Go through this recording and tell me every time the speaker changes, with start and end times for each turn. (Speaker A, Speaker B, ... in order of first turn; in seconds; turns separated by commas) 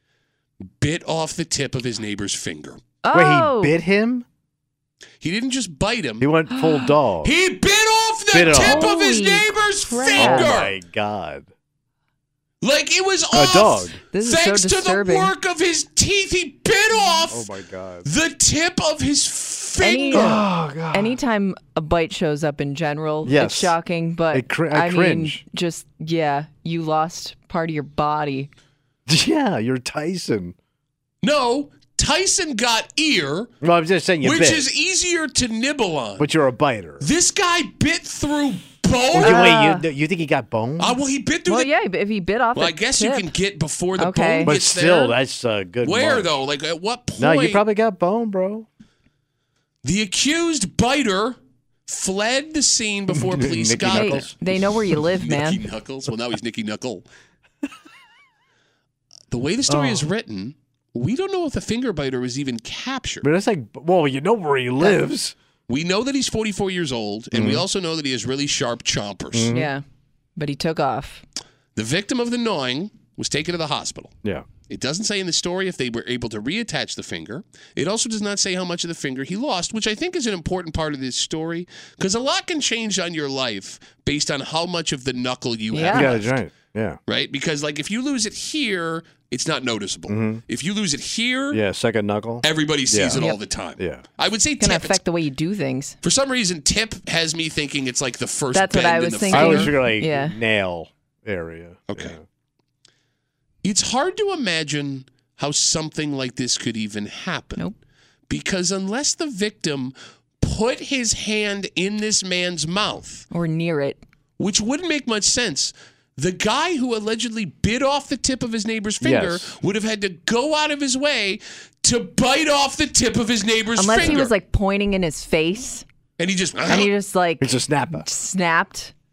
Speaker A: 0.7-2.8, Speaker B: 3.0-3.8, Speaker C: 3.1-4.2, Speaker A: 5.2-6.3, Speaker C: 6.2-7.3, Speaker B: 6.5-7.0, Speaker A: 7.2-10.8, Speaker C: 8.3-8.9, Speaker B: 8.5-10.5, Speaker C: 10.2-11.5, Speaker A: 12.6-17.5, Speaker C: 13.3-14.0, Speaker B: 14.1-15.3, Speaker C: 17.3-18.1, Speaker A: 18.0-20.4, Speaker B: 19.8-28.5, Speaker C: 20.1-21.2, Speaker C: 23.2-23.8, Speaker C: 24.3-25.4, Speaker C: 29.1-30.6, Speaker A: 31.2-33.5, Speaker C: 33.6-34.7, Speaker A: 34.2-36.3, Speaker C: 36.2-37.1, Speaker A: 37.0-39.5, Speaker C: 39.1-41.0, Speaker B: 39.2-39.9, Speaker A: 40.8-41.7, Speaker B: 41.5-43.3, Speaker A: 42.5-45.2, Speaker B: 44.0-44.5, Speaker C: 44.4-46.4, Speaker A: 45.8-47.6, Speaker C: 47.2-48.7, Speaker A: 49.8-54.3, Speaker C: 53.1-54.3, Speaker B: 53.9-55.6, Speaker A: 55.2-57.1, Speaker A: 59.3-63.2, Speaker C: 59.7-60.1, Speaker C: 63.2-65.3, Speaker A: 65.7-69.5, Speaker C: 67.3-67.7, Speaker C: 69.3-69.7, Speaker B: 69.5-69.8, Speaker B: 70.4-71.2, Speaker A: 71.8-74.1, Speaker A: 74.7-86.4, Speaker B: 85.7-86.1, Speaker C: 85.9-87.0, Speaker A: 87.1-91.6, Speaker C: 90.1-90.4, Speaker C: 91.5-93.2, Speaker A: 92.4-95.0, Speaker C: 93.8-94.1, Speaker B: 94.6-96.0, Speaker A: 96.0-99.7, Speaker B: 98.5-100.4, Speaker C: 99.3-102.2, Speaker A: 101.9-102.2, Speaker A: 103.6-107.7, Speaker A: 108.3-113.2, Speaker B: 113.3-114.0, Speaker A: 114.4-124.3, Speaker C: 119.0-119.5, Speaker B: 123.8-125.8, Speaker A: 126.2-126.9, Speaker B: 126.7-128.9, Speaker C: 127.4-128.1